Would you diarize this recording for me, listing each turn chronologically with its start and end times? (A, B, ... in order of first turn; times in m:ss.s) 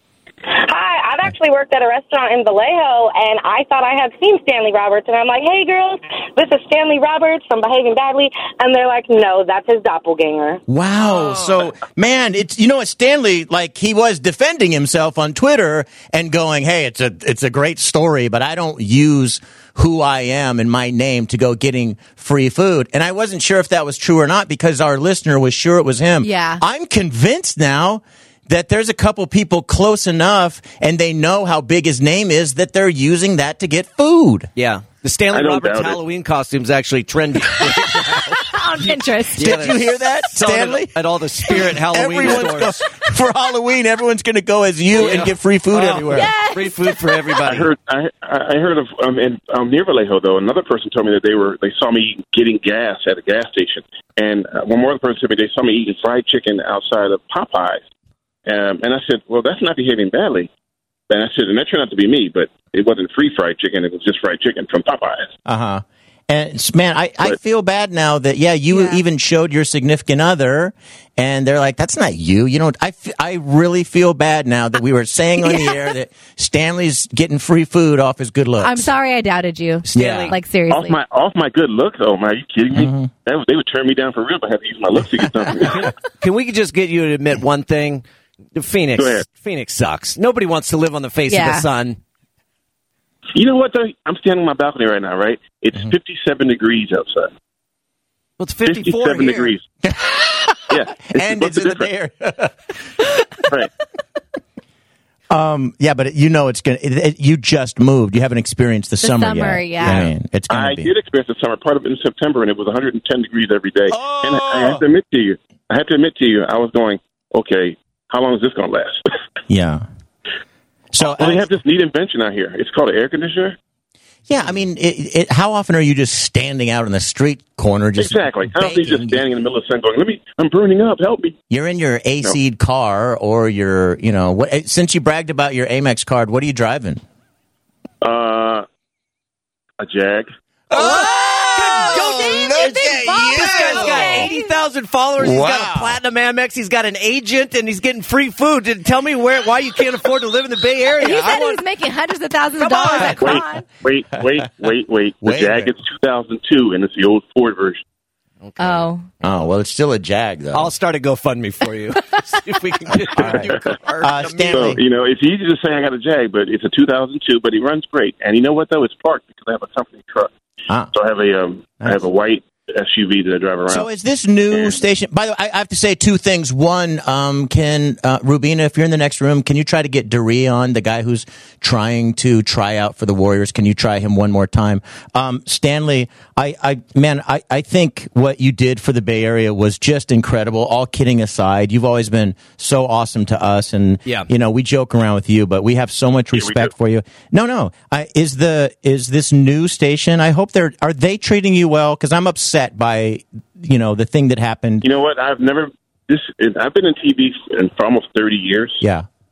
0:00.5-0:10.6 A
0:10.7-0:34.5 B
0:26.2-0:26.6 C
0:34.6-0:38.5 D
0:35.3-0:36.0 E
0:38.5-0:39.5 C
0:39.4-0:42.7 D
0:39.4-0:41.0 B
0:41.5-0:46.3 B
0:45.0-0:47.7 D
0:46.1-0:47.5 C
0:47.4-0:57.8 E
0:58.5-1:00.5 E
1:01.1-1:05.3 E
1:05.5-1:18.9 B
1:08.7-1:09.0 C
1:18.6-1:21.0 C
1:19.9-1:20.4 B
1:19.9-1:20.4 D
1:20.7-1:25.9 E
1:22.7-1:23.1 B
1:25.7-1:32.0 D
1:29.0-1:29.2 E
1:31.3-1:31.7 C
1:33.3-1:37.3 E
1:38.4-1:39.5 D
1:38.6-1:39.6 E
1:39.8-1:43.2 B
1:40.7-1:41.9 E
1:45.3-1:50.9 B
1:49.0-1:50.1 C
1:49.8-1:59.0 E
1:53.9-1:54.8 B
1:59.5-1:59.8 B
2:00.9-2:01.4 B
2:01.0-2:03.6 E
2:04.3-2:09.2 B
2:08.0-2:11.4 E
2:11.5-2:17.0 B
2:18.0-2:18.6 E
2:19.8-2:20.3 E
2:20.7-2:24.3 B
2:20.7-2:31.6 D
2:22.0-2:24.5 C
2:25.2-2:26.0 B
2:31.0-2:33.6 C
2:32.6-2:33.5 D
2:33.2-2:37.8 E
2:35.2-2:35.7 B
2:38.4-2:38.9 D
2:38.6-2:39.1 C
2:39.2-2:40.7 B
2:40.5-2:44.7 D
2:43.1-2:44.8 B
2:44.5-2:50.3 E
2:50.9-2:53.9 E
2:53.7-3:24.8 B
2:54.5-2:54.8 E
3:16.3-3:16.7 E
3:24.8-3:28.8 E
3:28.8-3:29.1 B